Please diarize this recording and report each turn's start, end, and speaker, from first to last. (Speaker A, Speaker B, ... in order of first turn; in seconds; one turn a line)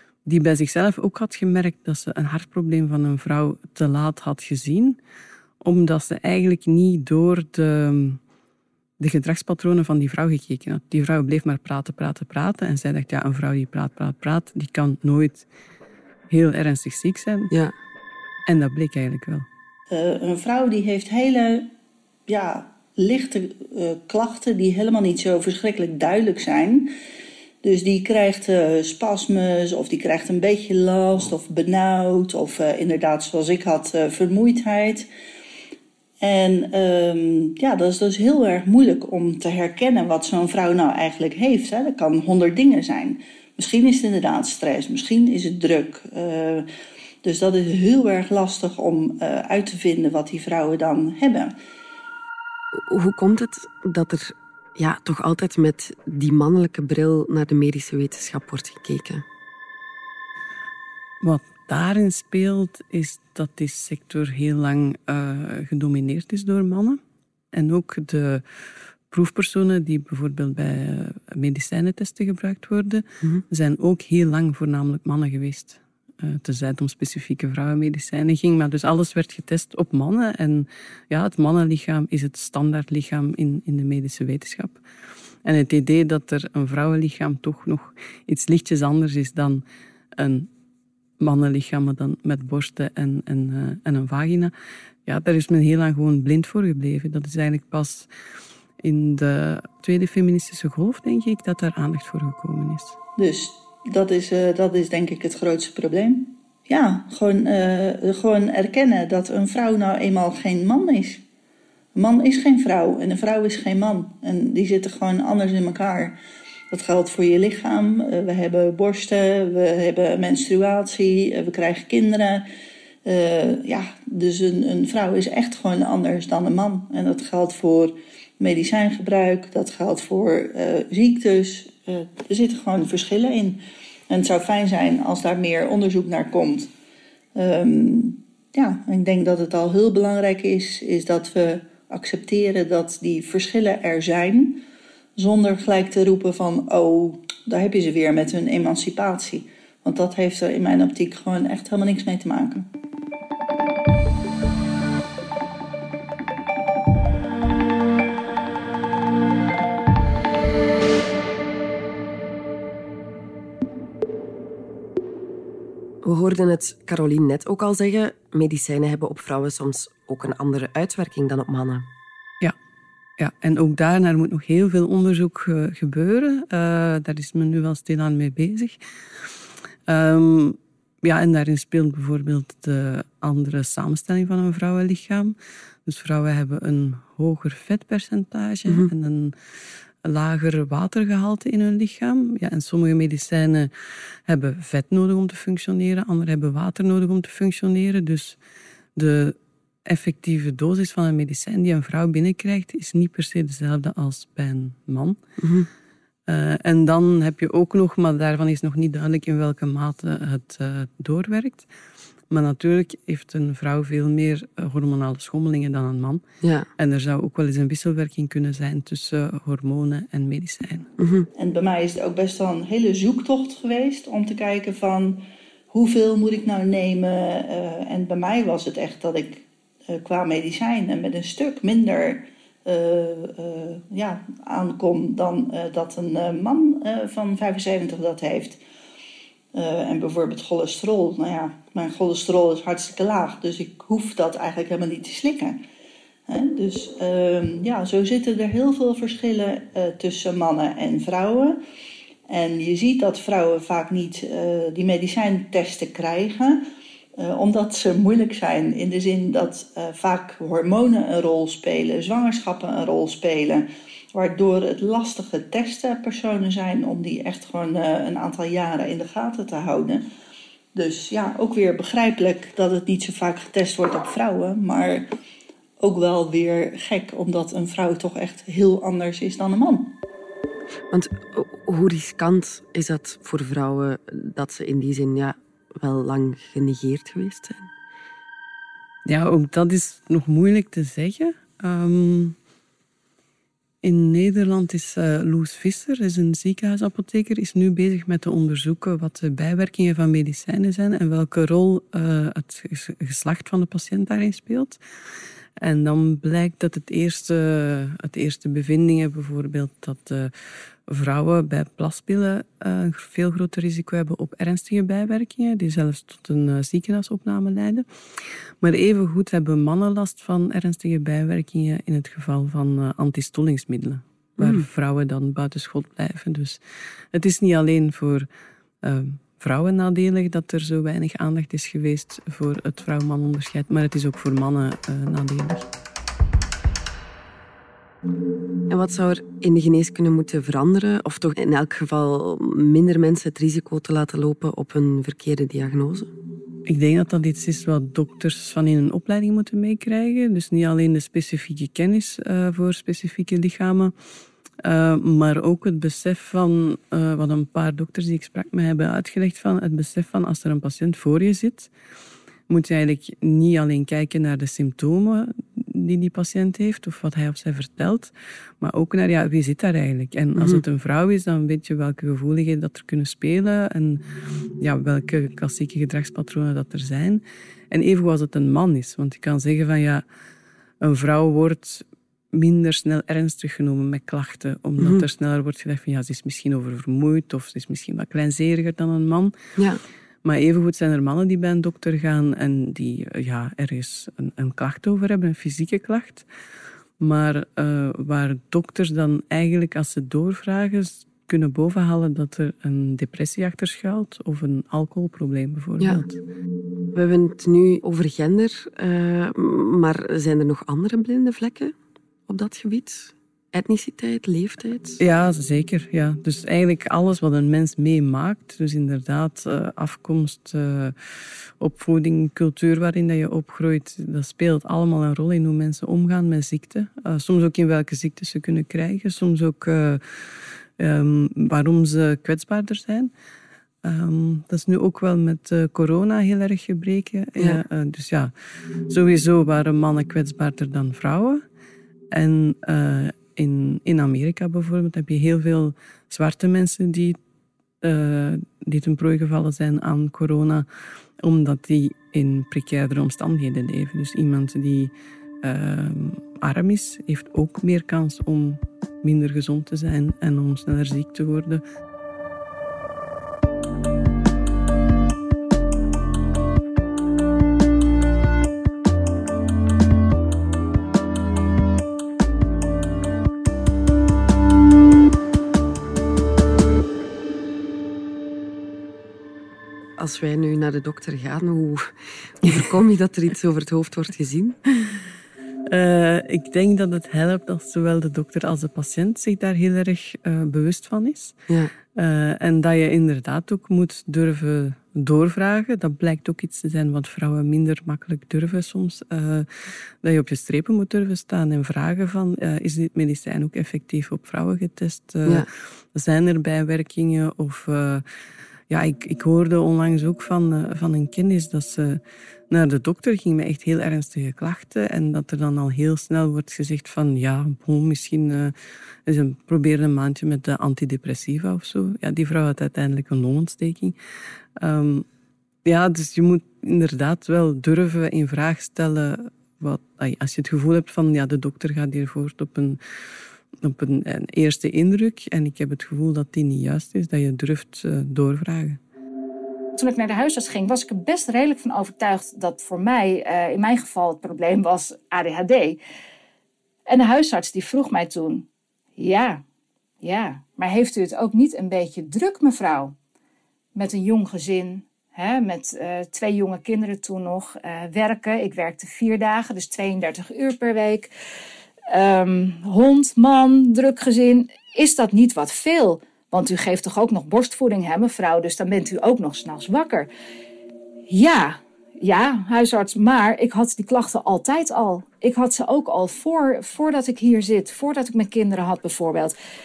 Speaker A: 0.3-5.0
Speaker A: 5.6-8.2
Speaker A: 9.0-15.5
Speaker A: 16.3-17.5
Speaker A: 18.5-19.5
Speaker B: 19.9-21.7
Speaker B: 22.3-26.9
Speaker B: 27.6-35.1
Speaker B: 36.2-46.7
Speaker B: 47.2-51.5
Speaker C: 52.9-59.2
Speaker A: 61.2-67.0
Speaker A: 67.5-68.4
Speaker A: 69.1-84.8
Speaker A: 85.5-89.6
Speaker A: 90.2-90.5
Speaker A: 91.2-94.5
Speaker A: 95.1-98.1
Speaker A: 98.8-103.0
Speaker B: 103.2-111.2
Speaker B: 112.0-116.2
Speaker B: 116.7-122.5
Speaker B: 123.0-136.7
Speaker B: 137.3-144.6
Speaker B: 145.2-152.7
Speaker C: 166.0-171.9
Speaker A: 173.2-178.8
Speaker A: 179.9-185.3
Speaker A: 185.9-189.3
Speaker A: 190.0-193.7
Speaker A: 194.3-198.4
Speaker A: 199.0-205.2
Speaker C: 205.4-205.7
Speaker A: 206.3-211.7
Speaker A: 212.3-216.2
Speaker C: 216.4-216.7
Speaker A: 216.8-220.9
Speaker C: 221.0-221.3
Speaker B: 221.4-238.6
Speaker B: 239.5-245.6
Speaker B: 246.3-251.6
Speaker B: 252.3-256.6
Speaker B: 257.2-270.0
Speaker B: 270.8-275.1
Speaker B: 275.8-279.9
Speaker C: 280.9-287.7
Speaker A: 289.1-292.4
Speaker A: 293.8-304.8
Speaker A: 305.6-310.3
Speaker A: 310.9-317.9
Speaker A: 318.6-326.6
Speaker A: 327.1-328.3
Speaker A: 328.8-335.7
Speaker C: 338.7-346.1
Speaker A: 346.7-353.9
Speaker A: 354.6-361.7
Speaker A: 362.5-374.0
Speaker C: 370.4-370.6
Speaker A: 374.6-380.0
Speaker A: 380.8-389.3
Speaker A: 390.2-396.3
Speaker A: 397.0-406.2
Speaker C: 406.9-411.7
Speaker C: 412.3-415.0
Speaker A: 415.0-420.9
Speaker A: 421.6-433.1
Speaker A: 433.8-438.3
Speaker A: 438.9-441.4
Speaker A: 442.1-447.2
Speaker A: 447.8-450.7
Speaker A: 451.2-461.6
Speaker C: 480.0-481.9
Speaker C: 482.4-485.0
Speaker A: 485.7-491.4
Speaker A: 491.9-499.5
Speaker A: 500.0-508.0
Speaker A: 508.7-518.5
Speaker A: 519.1-524.0
Speaker A: 524.6-525.0
Speaker A: 525.6-532.8
Speaker A: 533.6-538.8
Speaker D: 539.8-545.8
Speaker D: 546.9-548.5
Speaker D: 549.0-549.4
Speaker D: 550.0-552.9
Speaker D: 553.8-561.1
Speaker D: 561.9-570.1
Speaker D: 571.1-579.3